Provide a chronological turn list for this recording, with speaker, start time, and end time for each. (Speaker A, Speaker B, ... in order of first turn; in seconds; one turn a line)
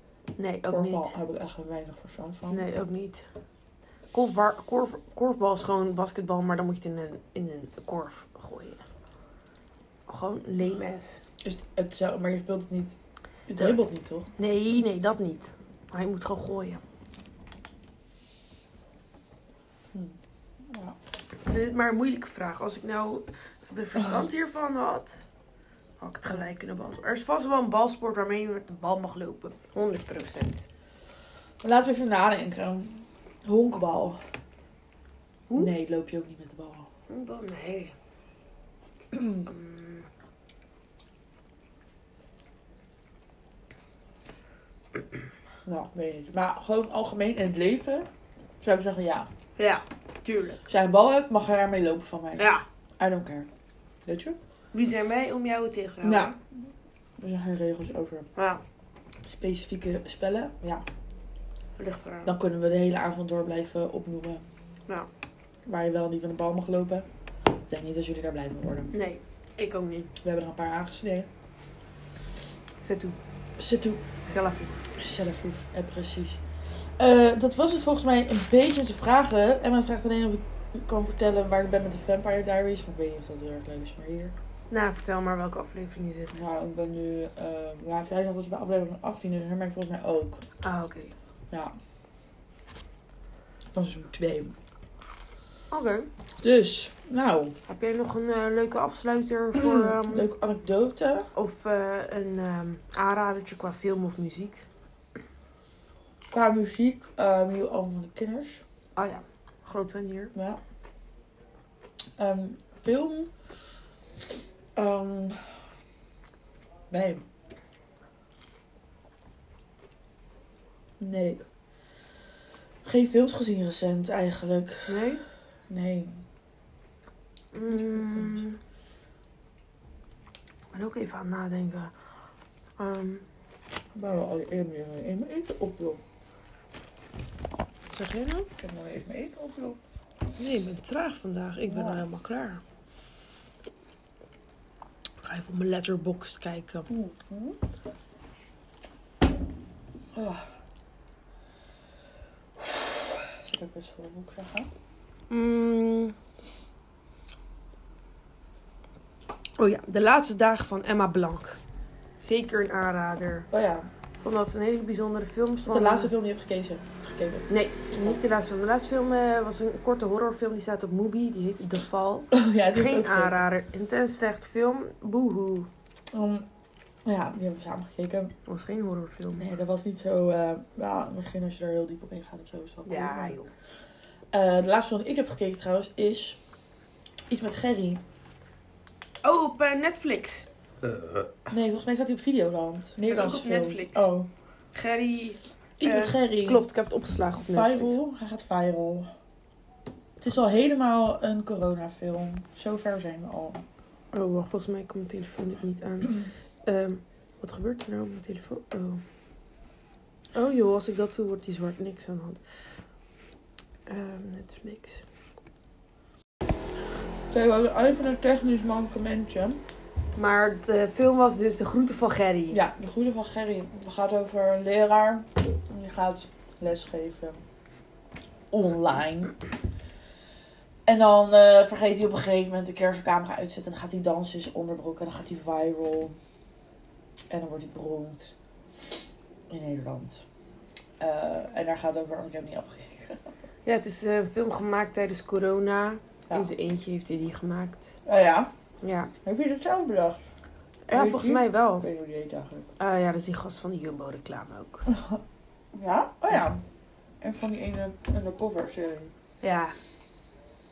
Speaker A: 0.4-1.1
Speaker B: 0.7-2.7
Speaker A: 2.5-3.2
Speaker A: 4.1-8.8
Speaker A: 10.1-11.2
Speaker B: 11.4-13.0
Speaker B: 13.5-14.3
Speaker A: 14.4-16.8
Speaker B: 20.7-21.0
Speaker A: 21.4-25.2
Speaker A: 26.0-30.6
Speaker B: 31.6-34.2
Speaker B: 35.6-36.9
Speaker A: 37.1-37.9
Speaker B: 39.1-39.5
Speaker A: 39.5-40.0
Speaker B: 45.6-48.1
Speaker B: 48.6-49.3
Speaker A: 49.6-50.6
Speaker B: 50.7-53.5
Speaker A: 52.4-52.6
Speaker B: 54.0-54.4
Speaker A: 54.7-56.4
Speaker B: 56.0-56.4
Speaker B: 57.2-58.3
Speaker A: 58.4-58.6
Speaker B: 59.2-60.9
Speaker A: 61.8-62.3
Speaker B: 62.2-64.4
Speaker B: 65.7-67.1
Speaker B: 67.7-68.9
Speaker A: 68.9-70.1
Speaker B: 70.2-71.3
Speaker A: 72.8-73.2
Speaker B: 73.6-74.1
Speaker A: 74.3-74.8
Speaker B: 75.0-84.3
Speaker A: 84.7-86.4
Speaker B: 86.3-90.4
Speaker A: 90.6-91.1
Speaker B: 93.7-94.5
Speaker A: 95.7-96.1
Speaker B: 96.4-97.6
Speaker A: 97.7-100.3
Speaker B: 99.5-101.3
Speaker A: 101.3-104.7
Speaker B: 106.3-108.6
Speaker A: 109.0-110.3
Speaker B: 110.3-110.6
Speaker B: 112.2-113.3
Speaker B: 114.8-115.6
Speaker B: 116.9-117.2
Speaker B: 121.0-121.5
Speaker B: 122.8-125.1
Speaker A: 124.9-125.2
Speaker B: 125.7-126.2
Speaker A: 127.5-128.6
Speaker B: 127.7-128.4
Speaker A: 130.7-131.9
Speaker A: 132.8-133.2
Speaker B: 133.9-136.0
Speaker A: 137.9-138.5
Speaker B: 138.6-139.8
Speaker A: 140.4-142.6
Speaker B: 141.7-142.1
Speaker A: 145.2-146.9
Speaker B: 146.9-147.6
Speaker B: 150.1-150.5
Speaker B: 152.6-154.7
Speaker A: 155.3-156.2
Speaker A: 159.6-161.6
Speaker A: 162.2-163.5
Speaker B: 163.5-163.9
Speaker A: 164.2-166.1
Speaker B: 165.7-168.2
Speaker A: 167.5-175.7
Speaker B: 172.3-173.4
Speaker B: 176.1-176.5
Speaker B: 177.1-178.3
Speaker A: 178.5-179.5
Speaker B: 179.4-183.4
Speaker A: 182.9-183.5
Speaker B: 184.3-186.4
Speaker B: 187.3-188.0
Speaker A: 189.2-190.5
Speaker B: 191.5-194.3
Speaker A: 193.0-194.1
Speaker A: 194.7-198.0
Speaker B: 195.8-196.7
Speaker B: 197.5-199.1
Speaker B: 200.2-203.7
Speaker A: 204.1-209.0
Speaker A: 210.3-212.4
Speaker A: 213.9-215.1
Speaker B: 217.3-219.6
Speaker A: 220.2-222.6
Speaker B: 222.5-227.4
Speaker B: 228.5-229.3
Speaker B: 230.9-236.2
Speaker B: 237.3-238.3
Speaker B: 239.5-240.3
Speaker B: 241.0-243.3
Speaker A: 243.7-248.0
Speaker B: 248.1-248.5
Speaker A: 248.8-249.1
Speaker B: 249.2-250.3
Speaker A: 250.9-251.9
Speaker B: 250.9-252.7
Speaker A: 252.8-254.9
Speaker B: 254.9-255.2
Speaker B: 255.7-256.6
Speaker B: 257.2-259.1
Speaker A: 259.4-259.8